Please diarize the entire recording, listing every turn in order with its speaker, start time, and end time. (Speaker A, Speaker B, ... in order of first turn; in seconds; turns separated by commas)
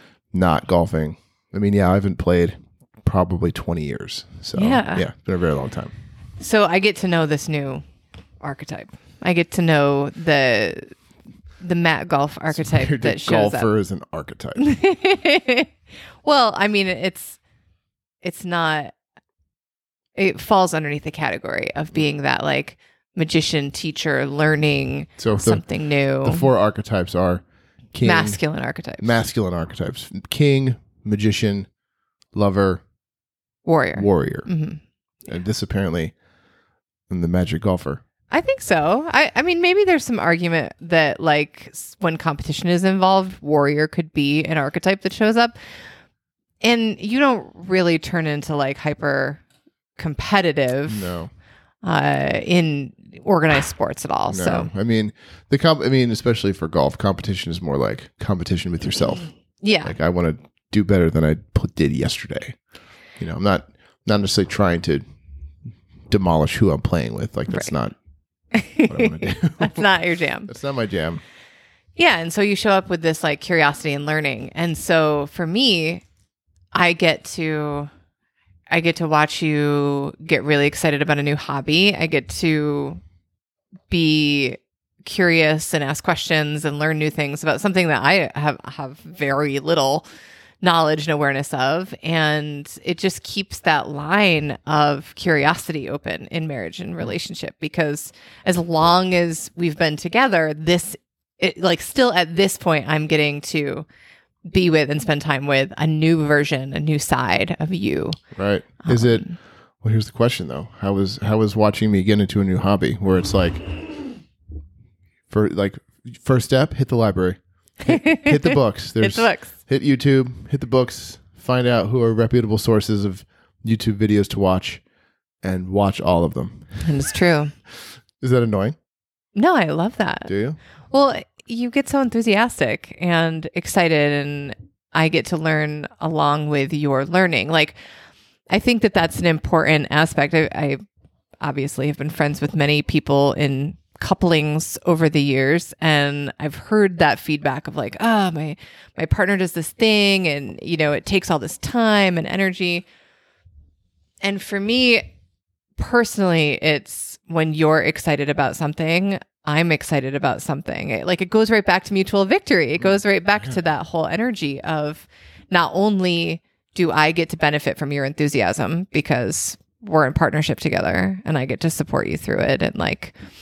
Speaker A: 0.3-5.9, Speaker B: 4.5-5.0, Speaker B: 6.4-7.8, Speaker B: 8.4-10.9, Speaker B: 11.6-13.7, Speaker A: 12.5-14.7, Speaker B: 14.6-15.7, Speaker B: 16.2-17.4, Speaker B: 18.2-18.9, Speaker B: 20.2-26.5, Speaker A: 25.2-25.6, Speaker A: 26.2-28.4, Speaker B: 28.0-29.2, Speaker A: 29.0-31.7, Speaker A: 32.3-32.8, Speaker B: 33.6-34.8, Speaker A: 34.0-34.5, Speaker A: 35.3-36.1, Speaker A: 37.1-38.0, Speaker B: 38.3-45.6, Speaker B: 46.6-49.4, Speaker B: 50.0-51.1, Speaker A: 50.9-51.3, Speaker B: 51.8-54.7, Speaker A: 54.3-59.3, Speaker B: 59.6-59.9, Speaker A: 59.8-62.5, Speaker A: 63.2-65.0, Speaker A: 66.1-67.9, Speaker B: 68.5-70.5, Speaker A: 68.8-69.8, Speaker A: 70.5-71.2, Speaker B: 72.0-76.0, Speaker B: 76.7-77.9, Speaker B: 78.7-83.0, Speaker B: 83.9-90.0, Speaker B: 90.6-103.8, Speaker B: 104.5-108.2, Speaker A: 108.3-109.3, Speaker B: 108.8-109.3, Speaker A: 109.8-113.6, Speaker A: 115.3-124.8, Speaker B: 117.8-119.5, Speaker A: 125.4-126.8, Speaker B: 126.8-127.5, Speaker A: 128.2-128.8, Speaker B: 129.3-130.3, Speaker A: 130.3-130.6, Speaker B: 130.9-137.7, Speaker B: 138.5-140.8, Speaker B: 141.4-152.8, Speaker B: 154.2-155.1, Speaker B: 155.8-173.1